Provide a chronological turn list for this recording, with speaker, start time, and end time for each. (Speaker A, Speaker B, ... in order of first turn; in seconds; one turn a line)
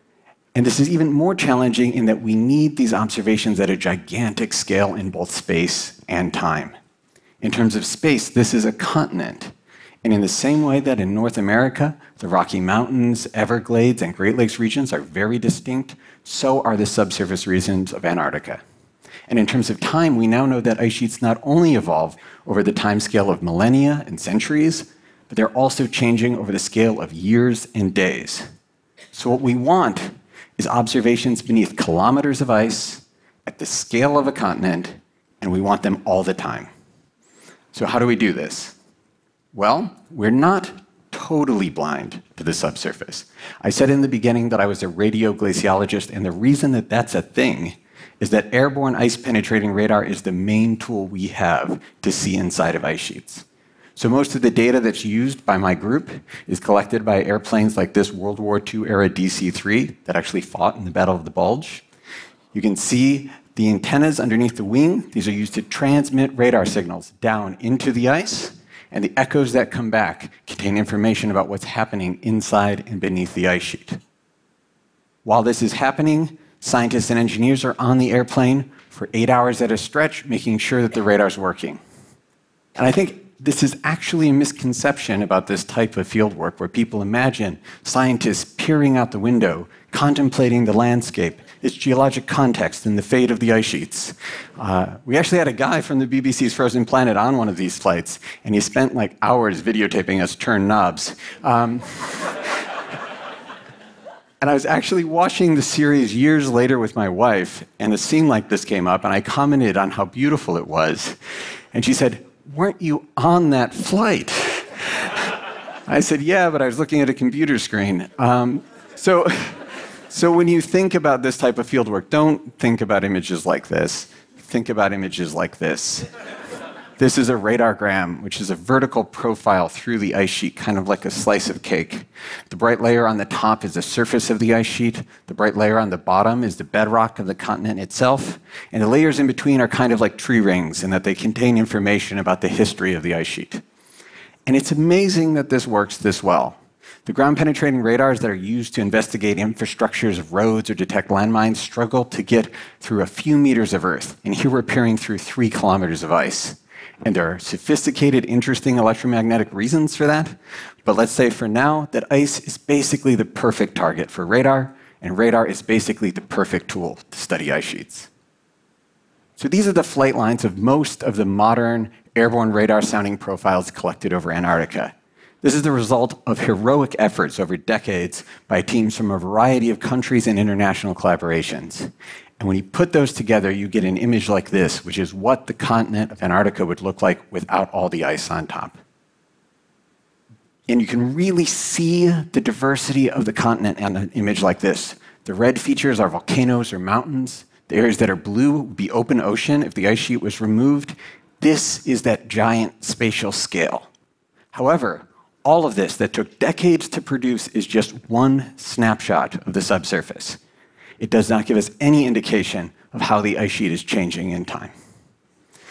Speaker A: 0.5-6.7
Speaker A: 7.4-18.6
Speaker A: 19.3-28.5
Speaker A: 29.1-36.7
Speaker A: 37.7-38.8
Speaker A: 39.5-61.8
Speaker A: 62.5-74.0
Speaker A: 75.2-81.8
Speaker A: 82.8-102.4
Speaker A: 104.4-111.2
Speaker A: 111.7-115.3
Speaker A: 115.9-126.1
Speaker A: 127.0-143.6
Speaker A: 144.4-168.1
Speaker A: 169.4-188.8
Speaker A: 190.7-203.9
Speaker A: 204.5-210.4
Speaker A: 211.0-214.7